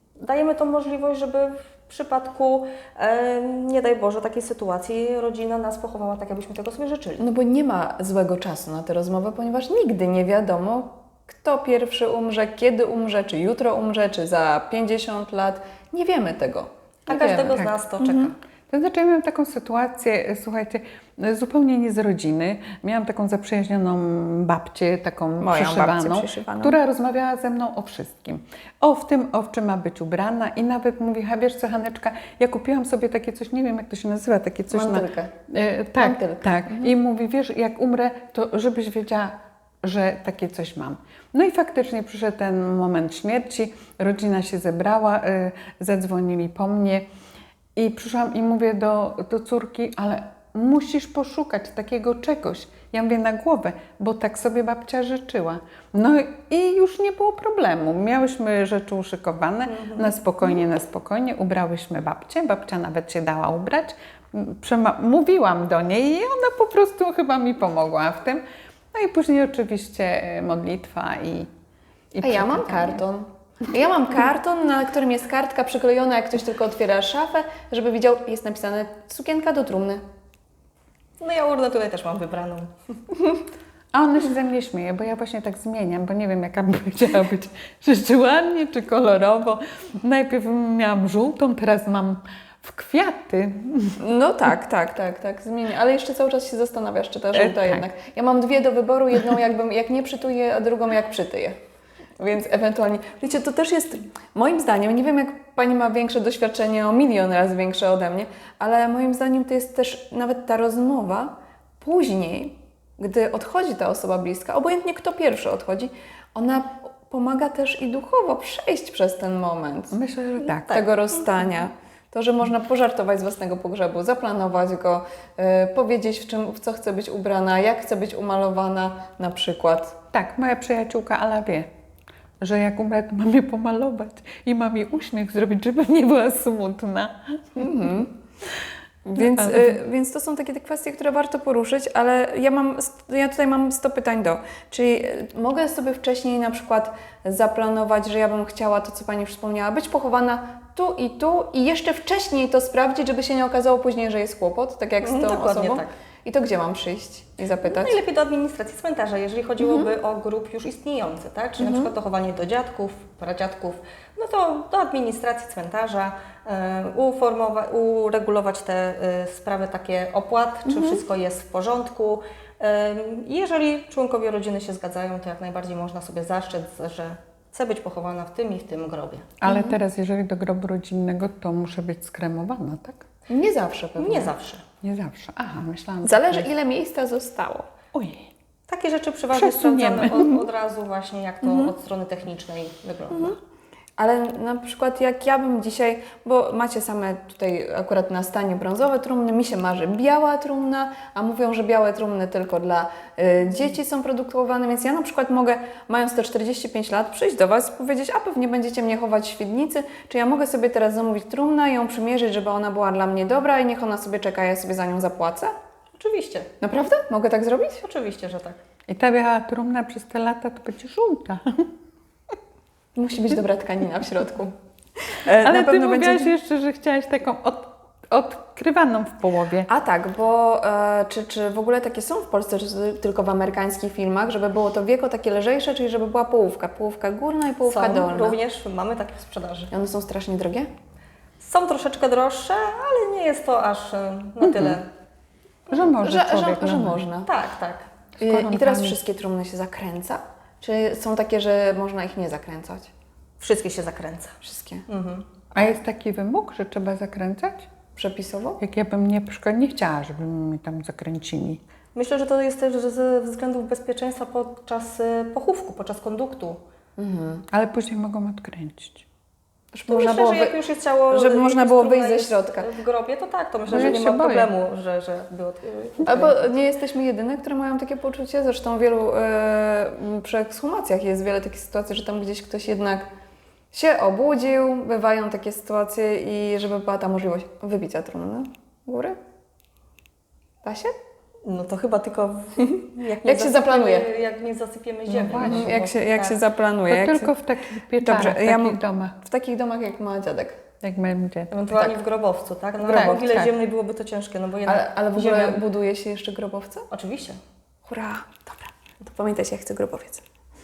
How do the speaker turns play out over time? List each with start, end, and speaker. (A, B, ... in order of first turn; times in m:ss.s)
0:00.2-0:07.2 A
0:07.2-0:17.6 B
0:17.1-0:18.3 A
0:17.5-0:47.0 C
0:25.4-0:26.8 B
0:34.7-0:35.3 B
0:36.0-0:37.0 B
0:47.8-1:08.4 C
0:59.7-1:00.2 A
1:08.9-1:11.5 C
1:12.1-1:13.0 C
1:12.2-1:20.0 B
1:21.2-1:22.7 A
1:23.9-1:34.0 C
1:34.0-1:41.6 B
1:37.3-1:37.9 C
1:42.2-2:00.0 B
1:59.9-2:00.8 C
2:00.7-2:10.0 B
2:10.1-2:11.7 C
2:12.4-2:17.7 C
2:17.6-2:18.1 B
2:19.0-2:38.0 B
2:19.2-2:19.8 C
2:35.0-2:35.9 A
2:37.6-2:59.3 A
2:39.6-2:39.9 B
2:41.6-2:41.9 B
2:50.6-2:51.0 B
2:59.4-3:03.0 C
2:59.4-2:59.8 B
3:03.3-3:04.3 B
3:04.0-3:04.6 A
3:04.8-3:06.5 C
3:06.0-3:07.6 B
3:07.9-3:08.3 C
3:08.7-3:13.4 A
3:09.3-3:10.4 C
3:11.4-3:11.7 B
3:13.1-3:13.4 B
3:14.0-3:35.5 B
3:36.0-3:36.5 A
3:36.6-3:37.8 B
3:37.8-3:38.6 A
3:38.9-3:41.6 C
3:42.9-3:44.5 B
3:45.2-3:46.3 B
3:45.3-3:49.7 C
3:49.7-3:58.4 B
3:57.7-3:59.7 A
3:59.7-4:00.7 B
4:01.4-4:04.8 A
4:04.4-4:04.8 C
4:05.7-4:07.0 C
4:05.8-4:07.3 B
4:07.2-4:07.9 A
4:08.2-4:09.0 C
4:08.2-4:12.9 B
4:13.4-4:14.3 A
4:14.4-4:14.8 B
4:14.9-4:15.3 A
4:15.5-4:17.7 C
4:17.9-4:18.6 B
4:18.6-4:21.6 C
4:21.9-4:26.6 A
4:27.0-4:27.4 B
4:27.5-4:29.0 C
4:29.7-4:30.6 B
4:29.9-4:36.5 A
4:31.1-4:32.7 B
4:33.7-4:34.5 C
4:36.0-4:43.1 B
4:43.7-4:49.2 B
4:50.6-4:50.9 B
4:51.4-4:56.4 A
4:52.6-4:54.1 B
4:55.1-4:55.7 C
4:55.3-4:57.3 B
4:56.9-4:59.2 C
4:58.0-5:00.6 B
5:00.8-5:01.5 C
5:01.5-5:05.6 A
5:01.7-5:02.0 B
5:02.8-5:03.5 C
5:02.9-5:03.4 B
5:04.6-5:06.9 B
5:06.9-5:07.4 A
5:07.8-5:10.2 B